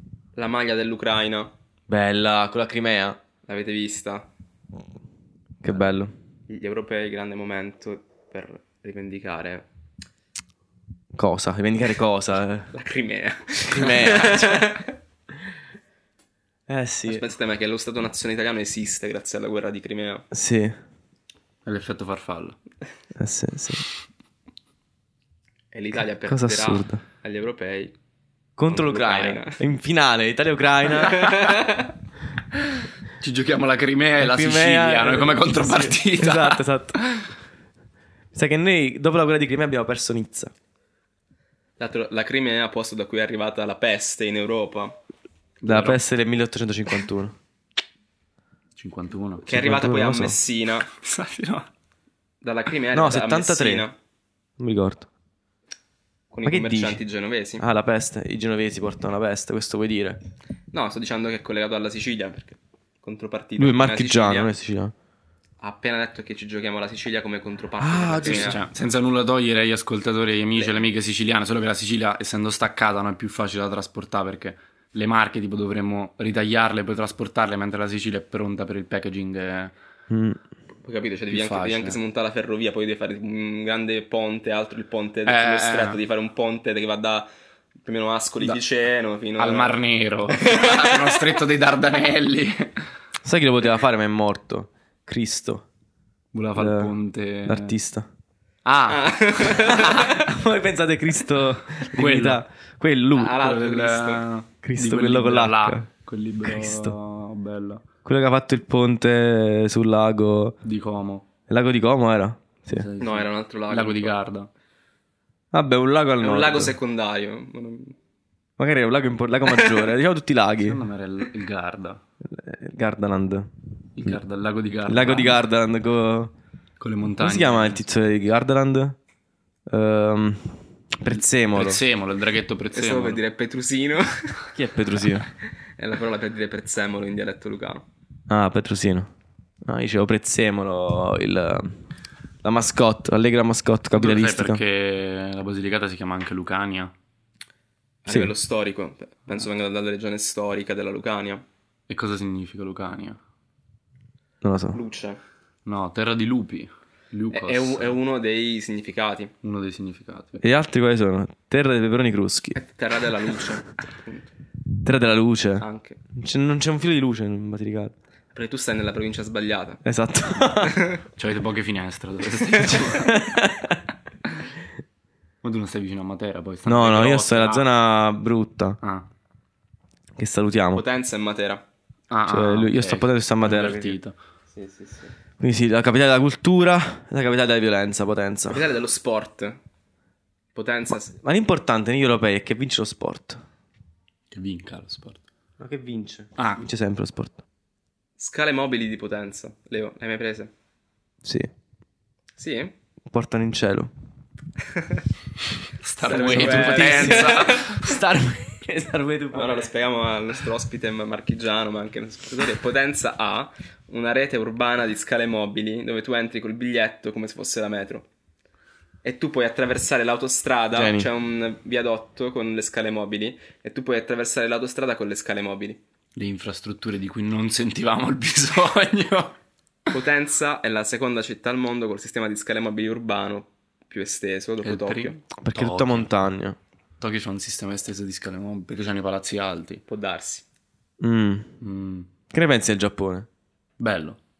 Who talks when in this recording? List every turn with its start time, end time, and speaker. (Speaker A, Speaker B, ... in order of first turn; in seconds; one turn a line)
Speaker A: 0.3-1.5
Speaker B: 1.9-3.2
Speaker A: 3.5-4.3
Speaker B: 5.6-6.1
Speaker A: 6.5-9.7
Speaker B: 11.1-12.7
Speaker A: 12.7-14.9
Speaker B: 13.7-14.7
Speaker B: 16.7-17.2
Speaker A: 17.1-20.2
Speaker B: 20.3-20.8
Speaker C: 21.6-22.6
Speaker B: 23.1-23.9
Speaker A: 25.7-27.9
Speaker B: 26.2-27.0
Speaker B: 28.6-31.4
Speaker A: 28.7-29.6
Speaker A: 31.0-31.9
Speaker C: 33.2-37.2
Speaker B: 34.2-37.0
Speaker B: 38.3-40.5
Speaker A: 41.8-45.0
Speaker C: 45.6-46.0
Speaker B: 45.6-47.4
Speaker C: 48.8-49.5
Speaker A: 49.4-50.9
Speaker B: 49.5-50.4
Speaker C: 50.9-51.7
Speaker A: 52.4-53.9
Speaker B: 52.9-53.9
Speaker B: 54.6-55.1
Speaker A: 56.3-57.6
Speaker B: 56.4-57.0
Speaker B: 57.6-60.2
Speaker A: 60.7-64.5
Speaker B: 63.6-64.9
Speaker A: 65.6-68.6
Speaker B: 67.8-68.6
Speaker C: 68.2-79.7
Speaker B: 80.1-80.4
Speaker A: 80.8-87.3
Speaker C: 81.3-82.0
Speaker C: 85.3-86.0
Speaker A: 87.8-91.3
Speaker C: 89.4-92.8
Speaker B: 93.2-95.7
Speaker C: 96.3-97.7
Speaker B: 96.5-96.9
Speaker B: 97.4-98.1
Speaker C: 98.7-100.1
Speaker A: 98.9-100.2
Speaker B: 99.8-103.4
Speaker C: 101.8-102.4
Speaker A: 103.1-104.2
Speaker C: 103.4-107.8
Speaker B: 104.6-105.9
Speaker B: 106.4-106.9
Speaker B: 108.0-110.5
Speaker C: 110.6-111.2
Speaker B: 111.5-112.9
Speaker C: 112.7-114.5
Speaker A: 113.0-114.1
Speaker B: 115.5-116.7
Speaker A: 116.2-118.0
Speaker B: 118.6-120.8
Speaker C: 120.6-122.0
Speaker B: 122.3-123.5
Speaker C: 124.0-125.4
Speaker B: 124.9-126.3
Speaker C: 126.8-127.8
Speaker B: 127.2-129.0
Speaker B: 129.7-131.8
Speaker C: 131.5-133.2
Speaker A: 132.7-134.5
Speaker B: 134.5-135.3
Speaker A: 135.8-137.8
Speaker B: 138.3-139.1
Speaker B: 139.6-141.8
Speaker B: 142.4-144.6
Speaker C: 143.9-146.9
Speaker A: 148.0-151.4
Speaker C: 151.9-153.2
Speaker B: 154.4-154.8
Speaker A: 154.7-155.2
Speaker C: 155.6-157.9
Speaker A: 157.3-159.3
Speaker C: 159.4-160.4
Speaker B: 160.4-162.6
Speaker A: 162.5-164.3
Speaker B: 164.8-167.9
Speaker A: 165.6-166.0
Speaker A: 168.3-169.8
Speaker B: 169.8-170.9
Speaker A: 170.6-171.0
Speaker C: 171.2-173.2
Speaker B: 172.7-173.8
Speaker C: 175.4-177.7
Speaker B: 176.7-178.8
Speaker B: 180.2-180.8
Speaker A: 180.7-181.6
Speaker C: 182.1-184.1
Speaker B: 182.3-184.0
Speaker A: 184.5-185.1
Speaker B: 185.4-188.6
Speaker A: 188.5-189.6
Speaker A: 190.5-191.2
Speaker B: 191.2-193.4
Speaker C: 194.3-195.2
Speaker B: 195.6-197.4
Speaker A: 198.2-200.5
Speaker B: 201.2-201.5
Speaker A: 202.3-202.7
Speaker B: 203.1-203.9
Speaker A: 204.7-205.0
Speaker C: 205.8-207.8
Speaker A: 206.0-207.7
Speaker B: 206.1-209.7
Speaker A: 209.3-218.1
Speaker A: 219.0-225.8
Speaker B: 220.7-221.1
Speaker C: 226.2-229.4
Speaker A: 229.9-235.1
Speaker C: 234.6-236.1
Speaker B: 235.4-236.6
Speaker C: 237.0-239.8
Speaker A: 239.9-240.4
Speaker B: 241.0-241.5
Speaker C: 241.6-242.1
Speaker B: 242.3-243.3
Speaker C: 243.8-244.2